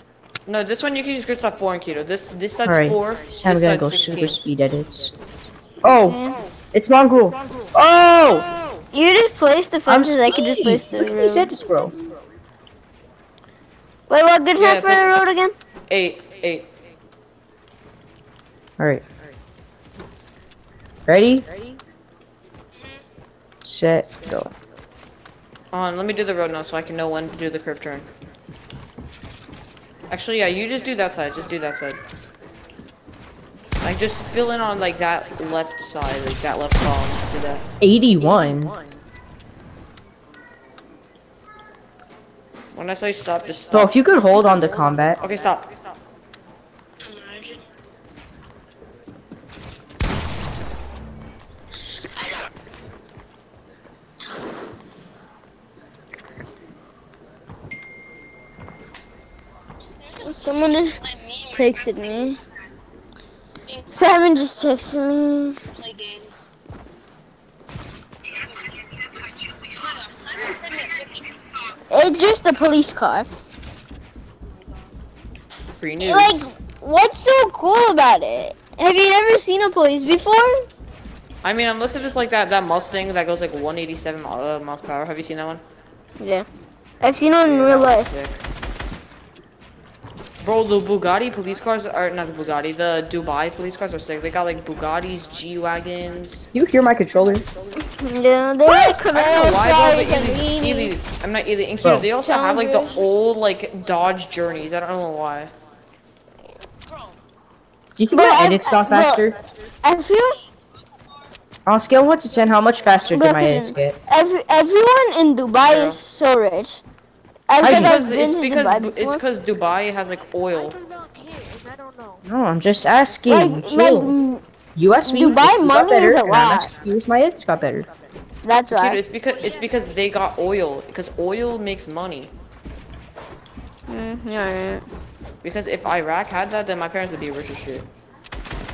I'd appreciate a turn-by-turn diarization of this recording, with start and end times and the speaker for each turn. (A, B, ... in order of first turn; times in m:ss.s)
0:00.5-0:04.4 A
0:02.6-0:05.1 B
0:05.8-0:06.2 B
0:06.0-0:06.4 C
0:06.7-0:08.4 B
0:08.9-0:11.5 C
0:09.9-0:11.9 B
0:14.1-0:15.5 C
0:14.6-0:15.2 A
0:15.9-0:16.7 A
0:21.1-0:21.4 B
0:22.7-0:23.1 D
0:23.6-0:24.5 B
0:25.7-0:28.0 A
0:30.1-0:32.0 A
0:33.8-0:37.6 A
0:37.8-0:38.7 B
0:42.7-0:43.9 A
0:43.7-0:45.2 B
0:45.2-0:45.7 A
0:47.0-0:47.6 D
1:00.0-1:02.3 D
1:00.2-1:02.4 C
1:03.7-1:04.2 D
1:03.9-1:05.6 C
1:05.8-1:06.5 D
1:08.5-1:11.5 D
1:11.9-1:13.3 C
1:15.7-1:16.5 A
1:16.0-1:20.6 C
1:21.4-1:25.6 A
1:26.2-1:26.4 C
1:27.0-1:28.1 C
1:27.4-1:28.4 A
1:30.4-1:36.5 A
1:36.5-1:37.5 B
1:37.9-1:40.9 C
1:38.6-1:45.5 A
1:42.2-1:43.0 C
1:46.9-1:47.2 D
1:48.0-1:49.4 B
1:48.1-1:49.2 C
1:49.8-1:50.4 C
1:51.6-1:54.0 B
1:53.1-1:56.8 C
1:55.6-1:56.0 A
1:57.5-1:59.2 C
1:57.6-1:58.0 B
1:57.6-2:00.8 A
2:00.5-2:02.2 D
2:02.2-2:04.1 B
2:03.3-2:04.4 C
2:04.8-2:07.9 B
2:05.0-2:06.7 C
2:08.4-2:09.0 C
2:08.7-2:12.3 A
2:09.3-2:10.0 D
2:13.9-2:14.8 C
2:15.4-2:17.9 A